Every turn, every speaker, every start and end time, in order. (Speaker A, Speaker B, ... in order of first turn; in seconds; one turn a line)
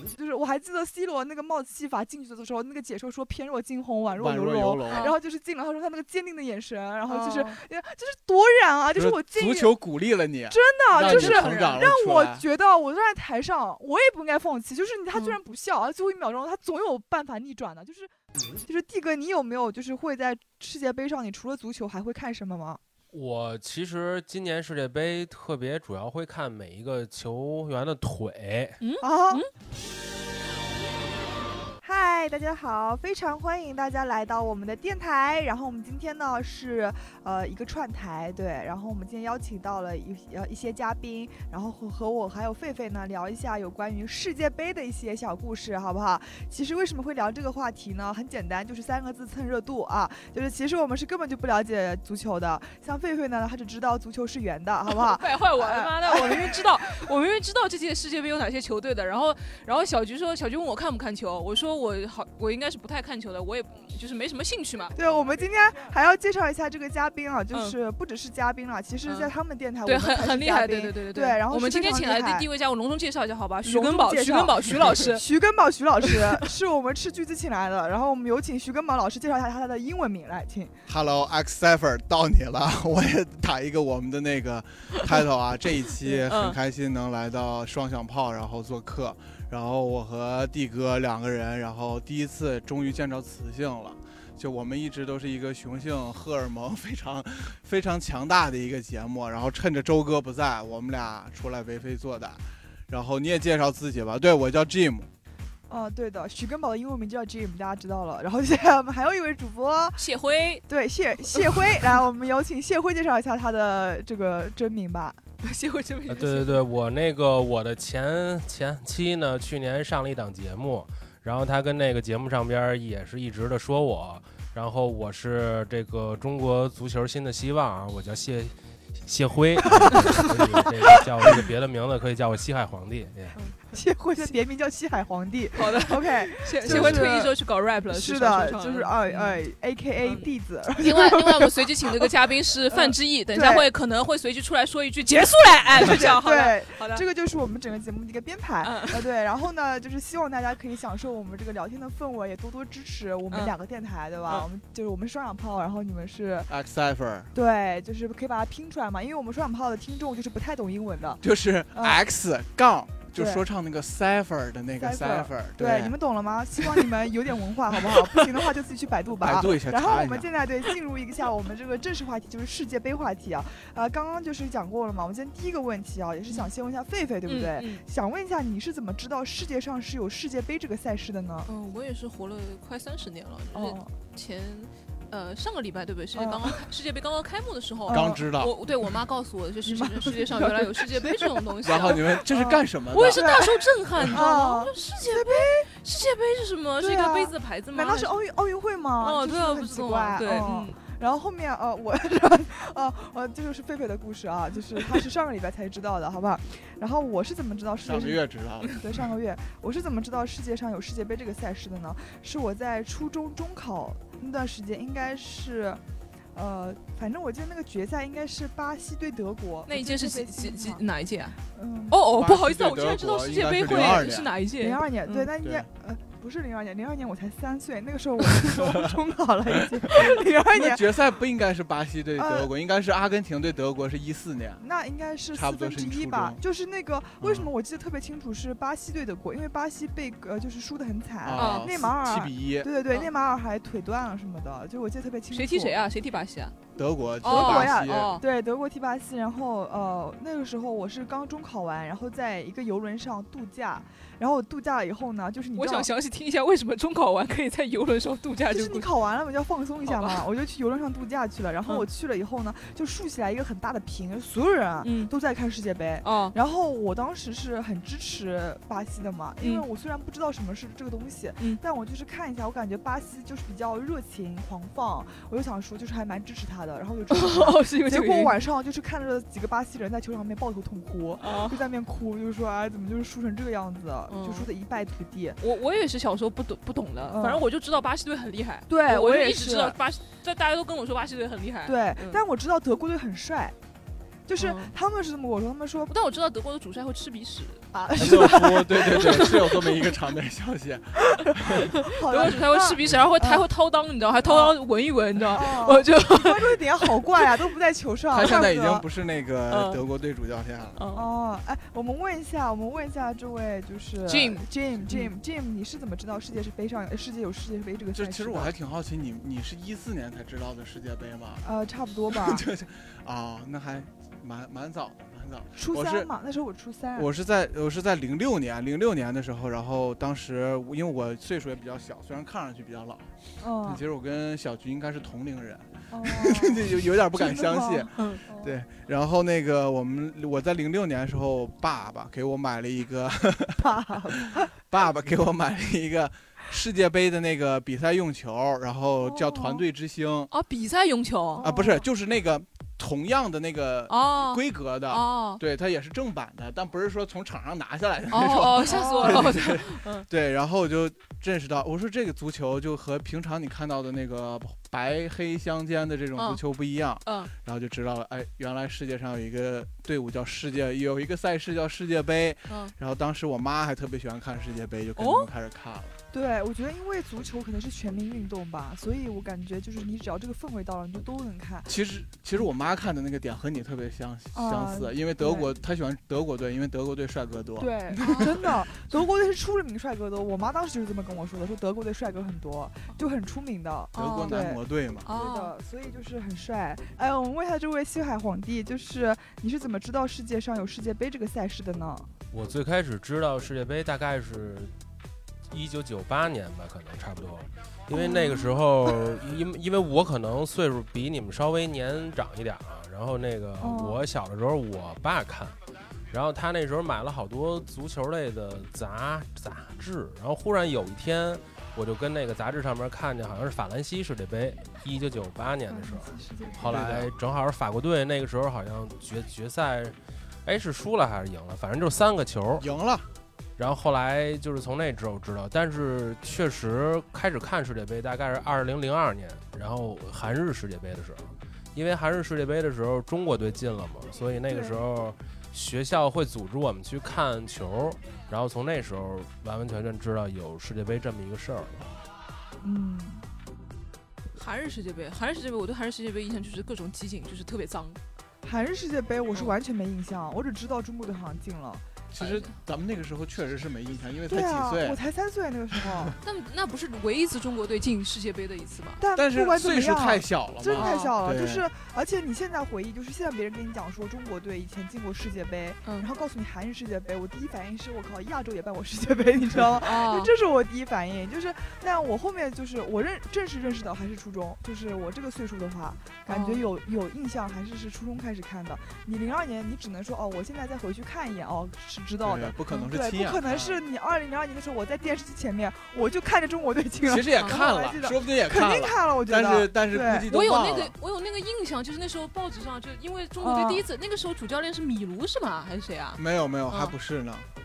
Speaker A: 0.1-9.8
Speaker B: 4.1-5.1
Speaker C: 4.9-5.2
Speaker C: 7.1-7.6
Speaker B: 8.9-12.4
Speaker A: 10.5-18.1
Speaker C: 10.9-11.8
Speaker C: 15.1-15.4
Speaker A: 18.6-22.8
Speaker D: 23.1-28.8
Speaker C: 28.8-29.5
Speaker A: 29.0-29.4
Speaker A: 31.8-57.1
Speaker C: 54.9-64.9
Speaker A: 64.9-72.5
Speaker C: 67.5-67.8
Speaker C: 69.0-69.3
Speaker C: 69.8-75.2
Speaker A: 73.6-80.7
Speaker C: 76.0-76.5
Speaker B: 80.9-105.1
Speaker C: 86.0-86.6
Speaker A: 105.7-110.0
Speaker C: 110.0-110.6
Speaker A: 110.7-115.2
Speaker C: 115.4-116.6
Speaker D: 116.1-133.3
Speaker A: 129.8-130.6
Speaker C: 133.3-134.3
Speaker A: 133.7-137.3
Speaker C: 135.5-139.4
Speaker D: 136.7-137.0
Speaker A: 137.9-142.1
Speaker C: 140.0-147.0
Speaker A: 142.7-143.7
Speaker A: 145.7-156.5
Speaker C: 148.6-149.1
Speaker B: 156.5-157.3
Speaker A: 157.3-161.2
Speaker B: 161.2-166.0
Speaker A: 161.7-162.0
Speaker A: 163.1-163.4
Speaker A: 164.8-181.5
Speaker C: 167.9-168.5
Speaker B: 169.2-170.3
Speaker C: 177.2-177.8
Speaker C: 181.4-192.2
Speaker A: 183.5-183.9
Speaker A: 186.1-186.6
Speaker A: 187.8-188.2
Speaker B: 187.9-188.5
Speaker A: 189.6-195.7
Speaker B: 191.6-194.2
Speaker C: 192.9-198.1
Speaker A: 196.8-215.8
Speaker C: 199.0-200.8
Speaker B: 207.8-208.8
Speaker A: 216.3-220.8
Speaker C: 219.7-221.4
Speaker A: 221.5-222.0
Speaker C: 221.9-225.3
Speaker B: 222.1-224.3
Speaker A: 224.6-230.8
Speaker B: 225.4-225.7
Speaker B: 229.9-234.6
Speaker A: 232.2-232.5
Speaker A: 234.6-245.8
Speaker B: 235.3-236.4
Speaker B: 237.2-237.5
Speaker B: 241.2-242.7
Speaker C: 241.4-241.7
Speaker C: 245.3-246.6
Speaker B: 246.8-248.2
Speaker C: 247.2-248.2
Speaker A: 247.2-255.9
Speaker C: 255.5-259.0
Speaker A: 258.5-285.4
Speaker C: 259.9-260.3
Speaker C: 264.8-265.1
Speaker C: 266.0-266.4
Speaker C: 269.4-269.6
Speaker C: 277.1-278.4
Speaker C: 281.2-281.7
Speaker C: 284.1-284.5
Speaker C: 285.4-292.2
Speaker A: 287.1-287.4
Speaker A: 288.7-289.8
Speaker A: 291.6-293.6
Speaker A: 294.3-295.9
Speaker C: 294.4-294.7
Speaker C: 295.9-299.9
Speaker A: 297.7-299.7
Speaker B: 297.9-301.7
Speaker A: 301.2-303.4
Speaker C: 301.6-307.3
Speaker A: 304.2-304.6
Speaker A: 305.3-308.8
Speaker B: 308.1-310.8
Speaker C: 309.5-309.8
Speaker C: 310.8-311.1
Speaker A: 310.9-318.5
Speaker C: 314.1-315.1
Speaker B: 317.9-321.4
Speaker A: 321.4-322.4
Speaker B: 322.1-326.1
Speaker A: 325.5-327.1
Speaker B: 326.9-333.1
Speaker A: 333.4-333.8
Speaker B: 333.6-350.3
Speaker A: 335.9-338.5
Speaker A: 343.6-344.5
Speaker A: 349.0-349.6
Speaker C: 350.3-351.5
Speaker A: 351.4-351.8
Speaker B: 351.4-375.9
Speaker C: 353.9-355.4
Speaker C: 358.1-360.1
Speaker A: 358.6-359.3
Speaker C: 366.2-366.4
Speaker C: 367.0-367.3
Speaker C: 375.0-375.3
Speaker A: 376.1-381.7
Speaker B: 381.7-388.9
Speaker A: 384.3-385.5
Speaker A: 387.6-402.1
Speaker C: 393.9-394.4
Speaker B: 393.9-395.1
Speaker C: 395.0-395.5
Speaker D: 402.3-404.7
Speaker D: 405.5-415.6
Speaker A: 407.9-409.0
Speaker A: 413.6-414.0
Speaker D: 416.1-432.6
Speaker A: 425.7-426.8
Speaker B: 426.7-427.1
Speaker B: 432.6-433.1
Speaker D: 433.6-451.9
Speaker A: 444.5-444.8
Speaker A: 452.6-453.2
Speaker C: 454.4-458.0
Speaker A: 458.4-461.8
Speaker B: 462.1-465.0
Speaker C: 462.2-462.5
Speaker A: 464.3-466.1
Speaker B: 465.7-466.1
Speaker C: 466.2-469.0
Speaker A: 469.0-500.3
Speaker B: 469.1-471.6
Speaker C: 470.7-471.2
Speaker C: 479.8-480.3
Speaker C: 486.3-486.6
Speaker B: 492.2-493.8
Speaker B: 497.0-500.9
Speaker C: 500.3-506.9
Speaker A: 503.4-503.9
Speaker B: 506.1-507.5